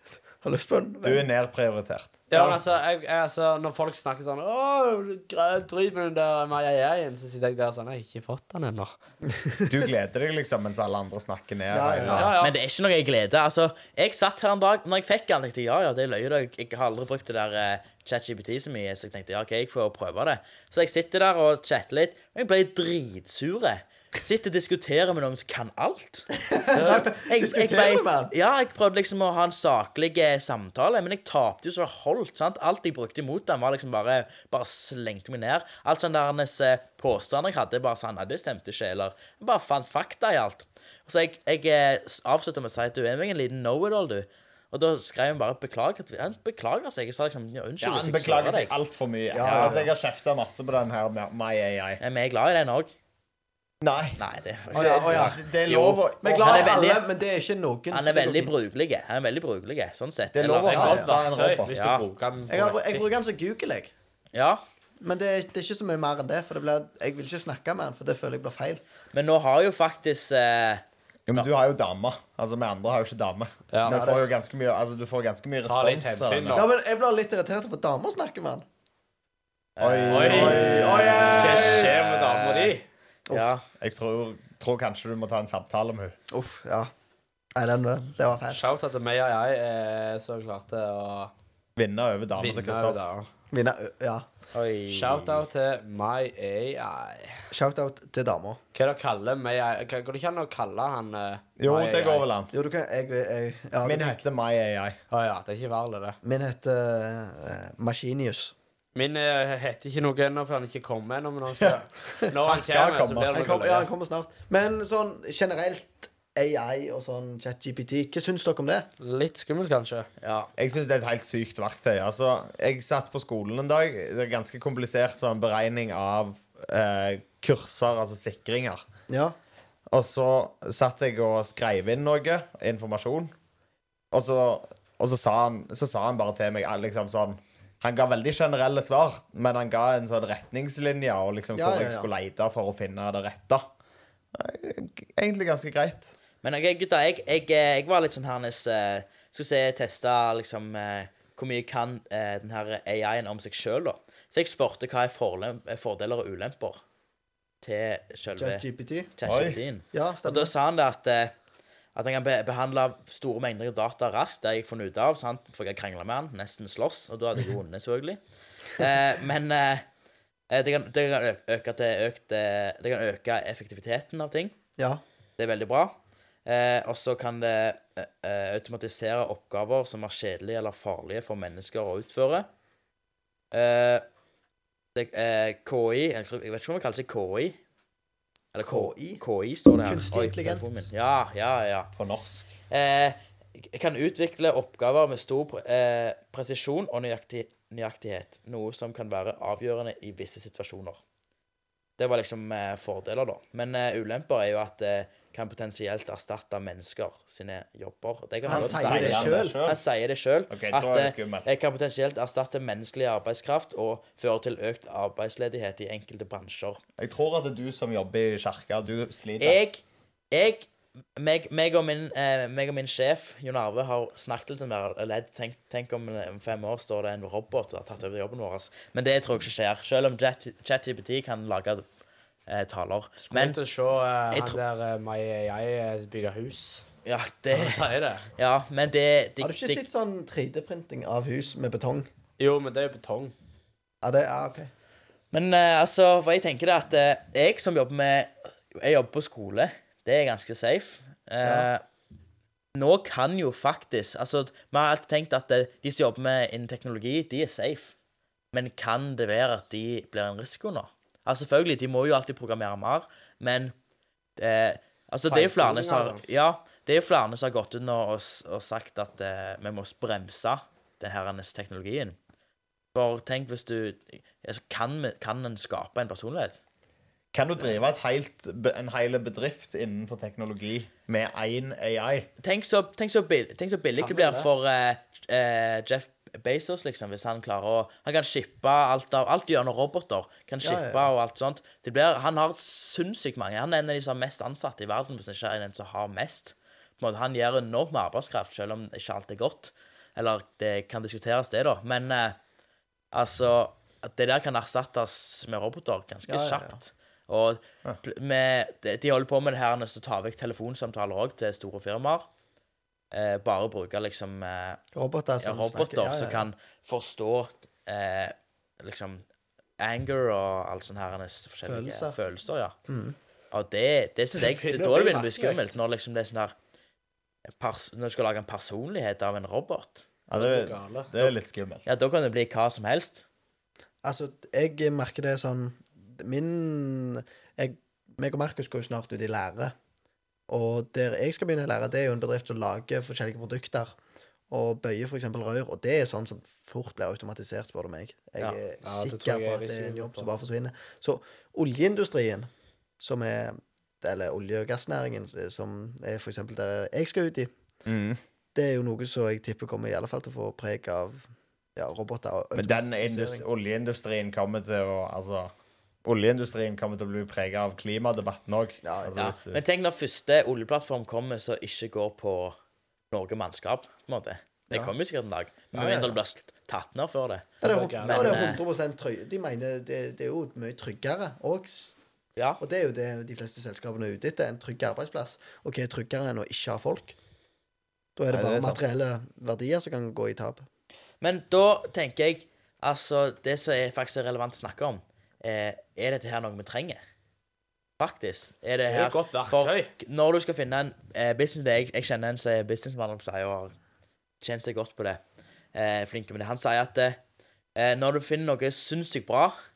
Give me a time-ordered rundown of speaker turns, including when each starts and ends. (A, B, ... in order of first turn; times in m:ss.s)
0:00.4-0:01.3 A
0:01.0-0:02.2 B
0:02.3-0:08.9 C
0:02.3-0:02.6 A
0:09.4-0:09.7 A
0:09.7-0:12.3 B
0:11.7-0:12.4 A
0:12.1-0:12.6 C
0:12.1-0:48.8 D
0:26.5-0:28.3 A
0:47.8-0:52.0 B
0:49.3-0:49.9 A
0:49.4-0:49.8 D
0:52.0-0:52.9 D
0:53.8-0:54.2 B
0:54.2-0:57.0 D
0:54.7-0:56.7 B
0:54.7-0:55.4 A
0:56.2-0:58.6 A
0:57.9-1:01.0 D
1:00.3-1:01.8 B
1:00.7-1:03.1 C
1:00.7-1:01.1 A
1:01.7-1:02.0 D
1:02.5-1:03.9 A
1:04.3-1:04.6 D
1:05.0-1:08.8 A
1:09.1-1:11.5 D
1:11.3-1:16.6 B
1:13.7-1:14.0 C
1:13.9-1:14.3 A
1:15.6-1:16.7 C
1:16.5-1:18.6 A
1:19.8-1:22.7 D
1:19.8-1:21.7 B
1:20.1-1:22.8 C
1:20.2-1:22.0 A
1:23.3-1:23.6 D
1:23.8-1:26.2 B
1:26.3-1:26.9 A
1:27.6-1:28.6 A
1:28.5-1:31.3 C
1:31.8-1:33.1 B
1:32.4-1:33.3 C
1:33.5-1:34.3 A
1:34.5-1:35.4 D
1:34.9-1:37.5 C
1:37.5-1:38.6 A
1:38.7-1:42.3 C
1:41.6-1:42.5 B
1:42.5-1:44.2 A
1:43.8-1:45.0 B
1:45.1-1:46.2 C
1:46.2-1:48.5 A
1:49.0-1:53.9 C
1:52.4-1:53.4 B
1:53.3-1:58.9 A
1:59.0-2:00.1 C
2:00.2-2:00.5 D
2:00.6-2:08.8 B
2:09.1-2:09.4 A
2:09.9-2:13.3 B
2:14.1-2:23.7 B
2:21.6-2:22.1 A
2:24.3-2:26.2 B
2:26.4-2:36.8 D
2:37.6-2:38.6 D
2:38.4-2:39.1 A
2:39.2-2:41.3 D
2:39.2-2:39.6 B
2:39.9-2:40.5 A
2:42.0-2:48.2 D
2:48.8-2:49.8 D
2:50.5-2:54.6 D
2:55.4-2:55.9 D
2:56.5-3:02.5 D
3:03.5-3:04.0 D
3:05.0-3:07.6 D
3:08.5-3:11.9 D
3:08.6-3:09.2 A
3:09.8-3:10.8 A
3:12.0-3:12.5 B
3:12.7-3:21.0 D
3:22.0-3:36.8 D
3:28.5-3:29.6 A
3:28.5-3:29.8 B
3:30.5-3:31.5 B
3:37.0-3:39.6 B
3:39.4-3:51.8 D
3:52.5-3:53.6 D
3:53.3-3:56.8 C
3:54.3-3:54.6 D
3:57.0-3:59.8 D
3:57.5-3:58.3 C
3:59.4-4:02.1 A
4:02.4-4:03.3 C
4:04.0-4:04.7 A
4:05.3-4:11.8 D
4:11.4-4:11.7 A
4:12.7-4:17.9 D
4:18.5-4:23.7 D
4:24.4-4:32.2 D
4:25.3-4:26.2 C
4:32.9-4:36.6 D
4:37.3-4:42.3 B
4:42.4-5:02.4 D
4:44.0-4:44.5 C
4:50.6-4:51.1 A
5:03.1-5:12.3 D
5:06.3-5:06.8 A
5:13.1-5:14.8 D
5:15.0-5:16.5 A
5:15.4-5:19.2 D
5:19.8-5:22.7 D
5:21.6-5:22.2 A
5:22.9-5:23.2 A
5:23.5-5:26.5 D
5:24.4-5:25.6 C
5:27.6-5:30.1 D
5:30.3-5:31.8 B
5:30.4-5:31.3 C
5:31.9-5:33.2 D
5:34.0-5:39.7 A
5:40.5-5:44.0 A
5:44.5-5:57.5 A
5:48.8-5:50.3 C
5:57.8-5:58.2 B
5:58.6-6:03.4 A
6:02.6-6:05.5 B
6:06.0-6:09.6 B
6:08.8-6:09.3 A
6:09.2-6:12.6 D
6:13.1-6:18.6 D
6:15.7-6:16.2 A
6:17.6-6:22.0 A
6:17.6-6:18.6 C
6:22.6-6:27.2 A
6:28.2-6:30.6 A
6:28.3-6:28.8 B
6:31.2-6:37.0 D
6:38.0-6:43.8 D
6:38.9-6:39.9 C
6:44.4-6:45.2 D
6:45.7-6:47.2 D
6:47.8-6:49.6 D